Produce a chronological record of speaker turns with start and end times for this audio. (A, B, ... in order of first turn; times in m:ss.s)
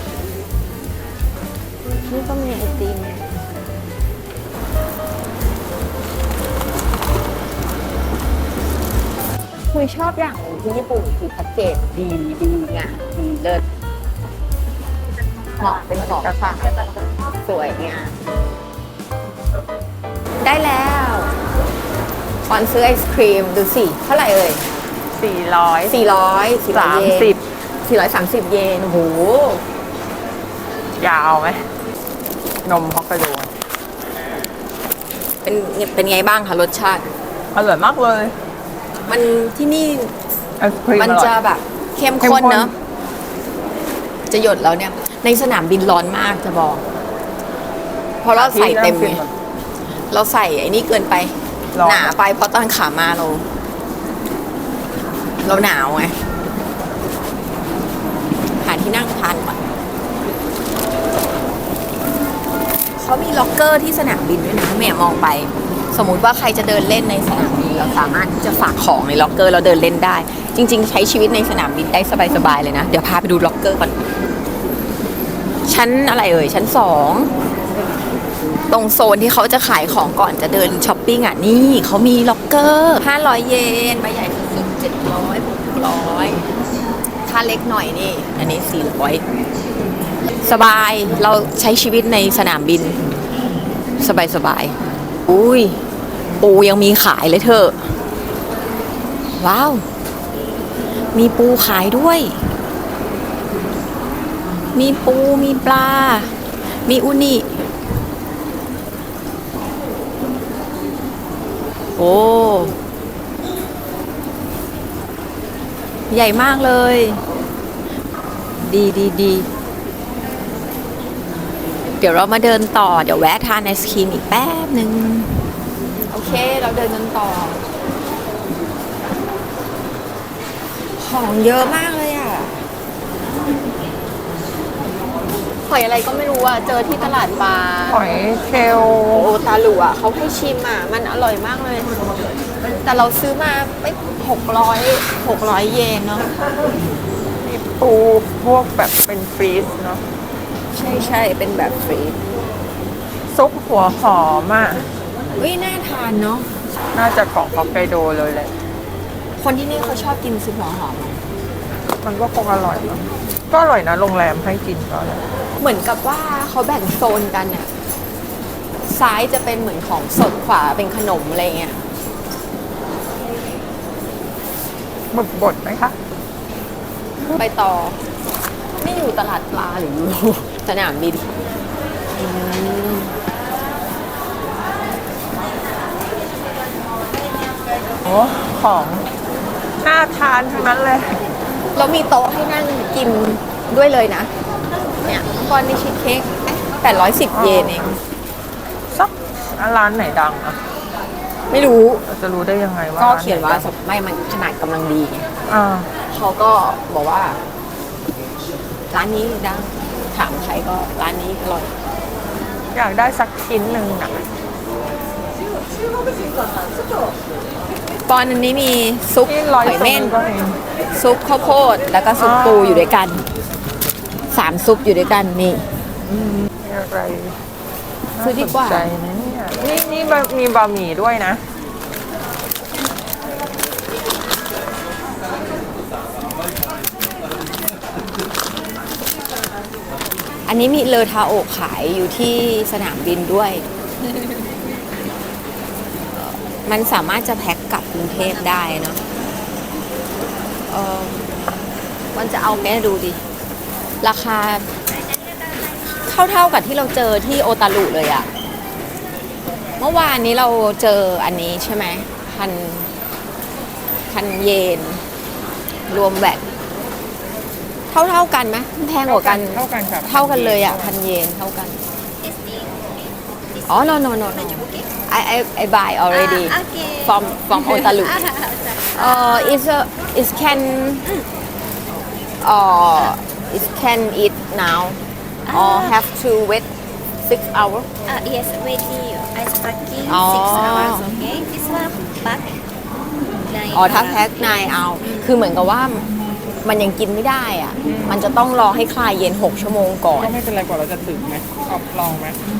0:02.1-0:03.4 A
0:09.7-0:13.6 A
0:15.6-0:18.2 A
0:20.4-0:21.3 A
0:22.5-0:24.7 A
0:25.1-0:26.0 B
0:25.9-0:29.6 A
0:26.7-0:27.4 B
0:31.0-0:31.7 B
0:32.6-0:33.5 B
0:35.4-0:37.1 A
0:37.5-0:38.3 B
0:39.1-0:40.1 A
0:40.6-0:41.3 B
0:40.9-0:42.7 A
0:42.2-0:42.7 B
0:44.3-0:46.8 A
0:48.2-0:49.2 A
0:48.3-0:49.3 B
0:50.1-0:53.5 A
0:51.7-0:52.2 B
0:55.4-0:56.2 A
0:58.6-0:59.7 A
1:03.0-1:14.0 A
1:15.7-1:17.3 A
1:18.7-1:26.4 A
1:27.2-1:29.2 A
1:30.4-1:33.0 A
1:34.0-1:35.8 A
1:36.4-1:37.9 A
1:39.4-1:39.8 A
1:41.1-1:42.5 A
1:44.7-1:47.5 A
1:52.0-1:52.8 A
1:56.1-1:57.2 A
1:58.6-1:59.5 A
2:02.0-2:05.5 A
2:06.1-2:07.6 A
2:11.0-2:12.6 A
2:15.6-2:18.0 A
2:17.9-2:19.3 B
2:19.1-2:21.9 A
2:22.6-2:26.4 A
2:27.4-2:30.0 B
2:30.7-2:32.2 A
2:33.3-2:34.8 B
2:35.4-2:36.5 A
2:36.9-2:38.5 B
2:39.4-2:41.2 A
2:42.0-2:45.2 B
2:45.6-2:47.7 A
2:48.8-2:51.8 A
2:55.1-2:56.0 B
2:57.2-2:58.0 A
2:58.8-3:01.3 A
3:02.2-3:03.1 A
3:08.0-3:09.0 B
3:09.8-3:11.2 B
3:11.7-3:14.3 A
3:15.0-3:17.9 A
3:17.3-3:18.0 B
3:18.9-3:20.6 B
3:21.5-3:22.0 A
3:22.1-3:23.7 B
3:23.0-3:25.3 A
3:25.5-3:25.9 B
3:26.1-3:27.4 A
3:28.9-3:31.7 A
3:32.7-3:34.2 B
3:38.1-3:40.2 A
3:39.2-3:40.6 B
3:40.9-3:43.2 A
3:42.2-3:42.9 B
3:44.3-3:45.6 A
3:46.0-3:47.4 B
3:48.2-3:51.4 B
3:48.2-3:48.9 A
4:00.4-4:03.6 A
4:06.1-4:09.0 A
4:08.2-4:08.8 C
4:10.7-4:11.3 A
4:12.1-4:13.2 A
4:14.0-4:14.7 A
4:14.9-4:16.0 C
4:16.0-4:18.3 A
4:19.8-4:22.9 A
4:24.0-4:25.0 A
4:25.9-4:26.5 A
4:27.9-4:31.8 A
4:29.0-4:30.9 B
4:32.2-4:34.9 C
4:33.7-4:38.3 A
4:36.1-4:39.6 C
4:38.9-4:41.1 A
4:42.4-4:46.7 A
4:45.4-4:46.0 C
4:47.2-4:47.9 A
4:48.0-4:52.6 C
4:50.0-4:51.1 A
4:53.4-4:55.3 C
4:53.7-4:56.1 A
4:56.6-5:00.3 A
4:57.8-4:58.2 B
5:00.2-5:02.4 B